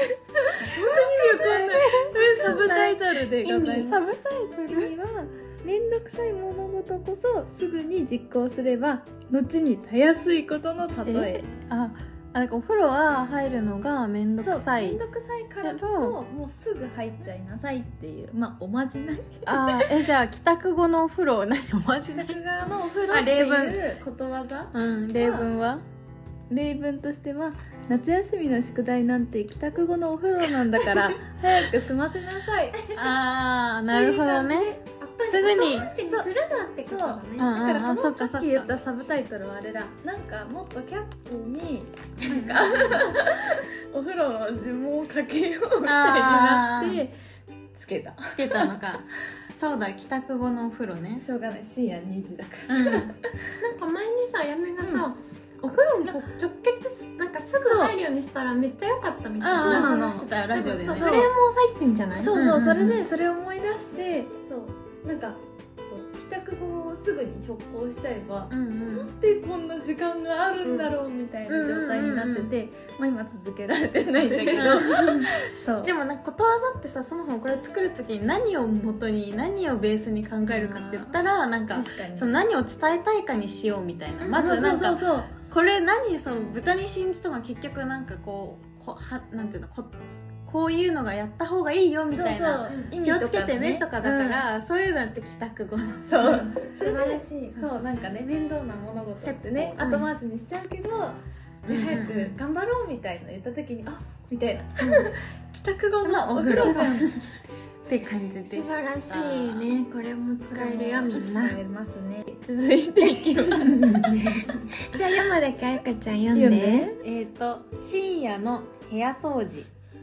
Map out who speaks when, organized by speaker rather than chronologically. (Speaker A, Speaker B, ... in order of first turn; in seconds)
Speaker A: 0.5-4.0, 4.7-11.4, 14.4-20.0, 22.1-25.5, 26.5-32.8, 36.9-47.1, 47.7-48.7, 51.2-53.2, 54.8-55.1, 57.6-58.0, 59.5-60.3, 60.9-61.3, 62.2-75.9, 80.5-81.2, 81.7-82.3, 84.3-85.3, 92.1-94.5, 96.1-107.1, 110.5-114.5, 116.3-117.0
Speaker B: 0.7-1.8, 33.9-37.5, 53.6-62.3, 96.2-97.5, 99.2-100.1, 104.8-105.1, 108.4-111.6, 114.8-116.9
Speaker C: 0.8-4.9, 11.0-15.0, 15.6-16.2, 19.4-22.4, 23.1-23.8, 24.7-25.8, 32.9-35.9, 37.4-38.7, 42.3-43.1, 45.8-47.0, 48.3-51.2, 52.7-53.1, 59.4-61.2, 62.3-63.0, 68.5-69.1, 70.6-70.9, 71.5-72.5, 74.5-89.9, 90.5-97.7, 101.7-102.3, 106.0-107.3, 107.8-109.7, 113.2-114.6, 117.0-119.7